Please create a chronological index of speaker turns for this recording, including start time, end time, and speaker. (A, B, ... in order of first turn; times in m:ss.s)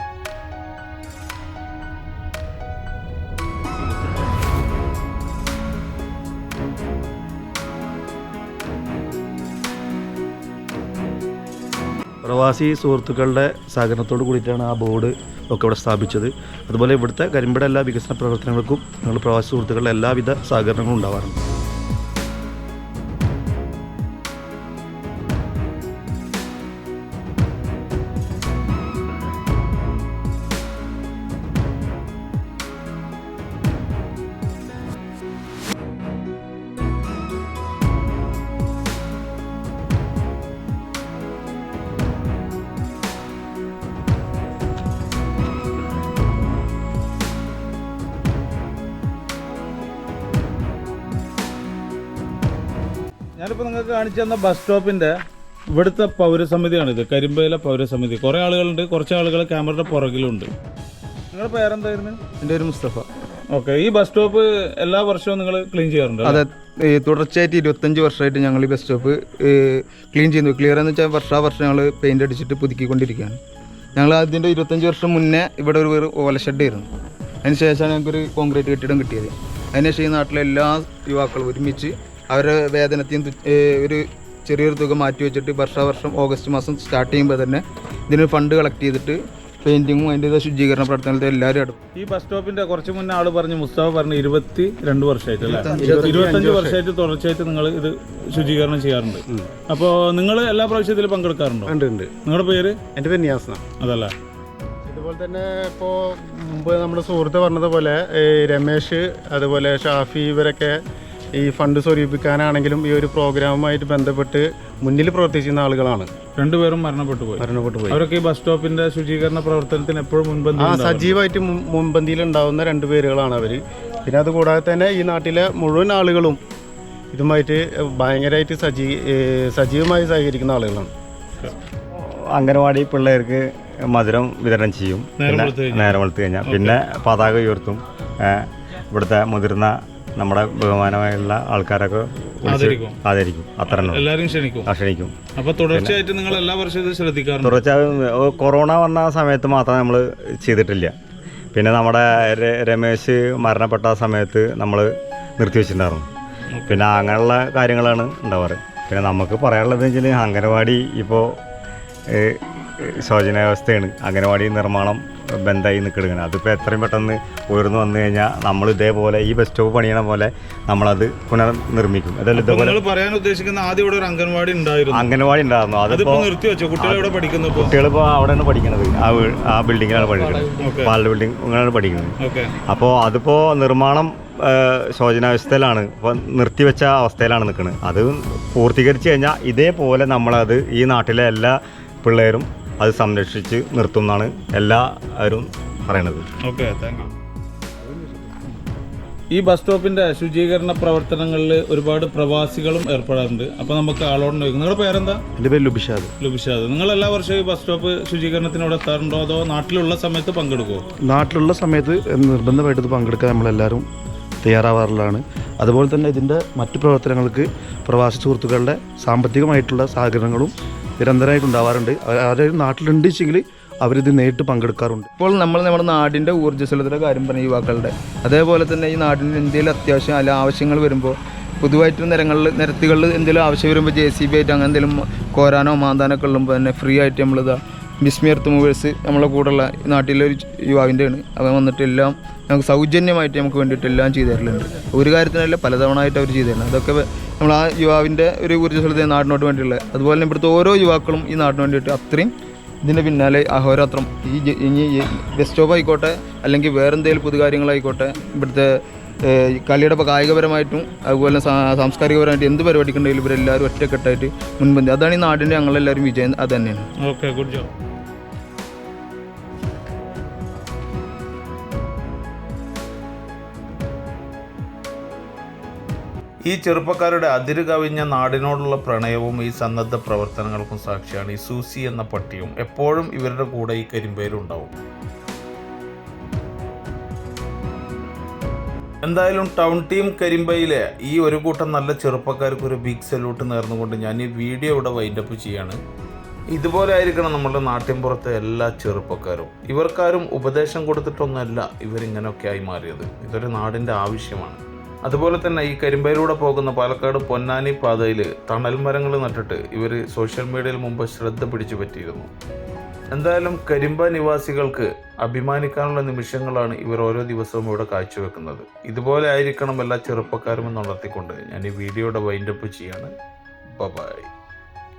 0:12.2-0:21.4 A
0:53.4-0:55.2 B
0:55.7-1:00.5 B
1:01.3-1:02.2 B
1:02.4-1:03.1 C
1:03.5-1:06.4 B
1:06.2-1:13.4 C
1:14.0-1:16.9 C
1:17.4-1:31.8 C
1:32.0-1:41.8 B
1:35.6-1:35.9 C
1:35.7-1:36.8 D
1:35.9-1:36.2 A
1:36.7-1:37.4 E
1:41.7-1:42.1 D
1:42.3-1:42.8 B
1:43.0-1:43.6 D
1:43.8-1:44.2 B
1:44.9-1:50.8 D
1:51.4-1:56.1 D
1:56.4-1:57.4 B
1:57.4-1:58.0 D
1:57.9-2:01.2 B
2:00.6-2:06.4 D
2:07.1-2:10.9 D
2:12.0-2:24.1 F
2:15.2-2:16.8 B
2:22.5-2:23.0 B
2:23.7-2:24.7 B
2:24.7-2:25.1 F
2:25.4-2:27.6 B
2:27.4-2:31.0 F
2:31.5-2:36.1 F
2:36.5-2:36.8 B
2:36.7-2:41.4 F
2:42.1-2:52.8 F
2:52.4-2:55.1 B
2:54.9-3:02.2 F
2:55.9-2:57.7 B
3:00.6-3:00.9 B
3:02.2-3:02.6 B
3:02.7-3:16.3 F
3:16.4-3:17.1 B
3:19.3-3:25.2 B
3:25.4-3:26.1 A
3:26.2-3:30.8 B
3:31.1-3:33.9 A
3:34.4-3:45.1 A
3:45.2-4:18.7 C
4:19.2-4:26.9 C
4:27.0-4:27.7 B
4:36.5-4:44.7 E
4:49.0-4:55.8 E
4:56.5-5:12.3 E
5:13.1-5:23.1 E
5:23.7-5:24.3 E